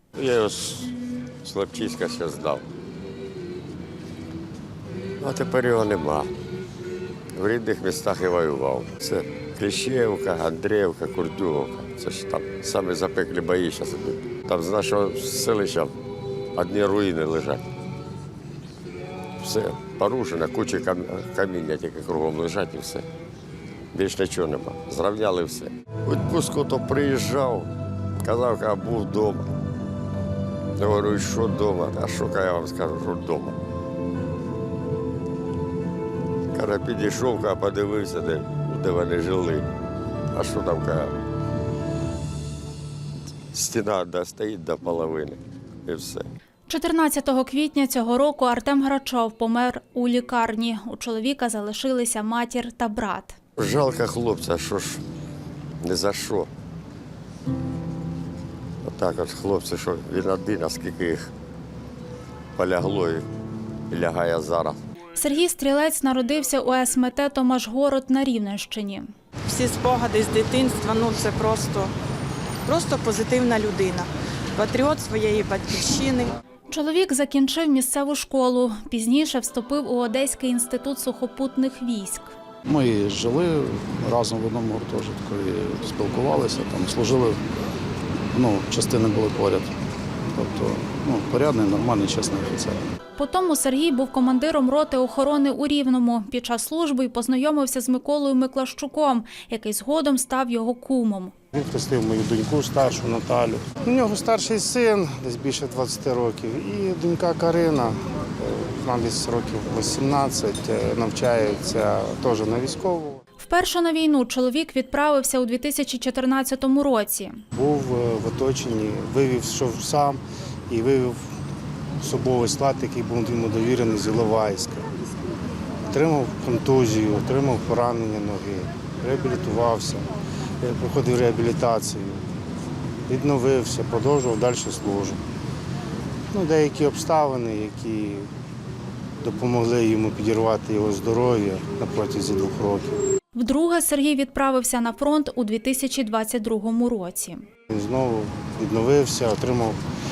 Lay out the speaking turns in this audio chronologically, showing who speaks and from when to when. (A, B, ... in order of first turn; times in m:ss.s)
0:00.2-0:02.6 A
0:05.2-0:06.3 A
0:07.4-0:15.9 A
0:16.6-0:17.6 A
0:19.4-0:23.0 A
0:23.9-0:27.7 A
0:28.2-0:29.5 A
0:30.8-0:33.6 A
0:36.5-0:39.7 A
0:40.3-0:41.1 A
0:43.5-0:46.3 A
0:46.7-0:53.4 B
0:53.6-0:55.0 A
0:55.8-0:56.5 A
0:58.8-1:01.3 A
1:02.6-1:03.2 A
1:03.9-1:04.8 A
1:05.2-1:09.1 B
1:09.5-1:11.9 C
1:12.7-1:16.4 C
1:16.7-1:22.3 B
1:22.6-1:27.4 D
1:28.3-1:29.8 D
1:30.3-1:32.9 D
1:33.2-1:41.3 B
1:41.5-1:53.2 E
1:53.4-1:57.4 B
1:57.5-2:01.3 E
2:02.0-2:04.9 E
2:05.9-2:10.1 E
2:10.6-2:12.2 E
2:13.1-2:15.2 E
2:16.3-2:18.3 E
2:19.2-2:23.0 E
2:23.4-2:27.4 B
2:27.7-2:29.8 E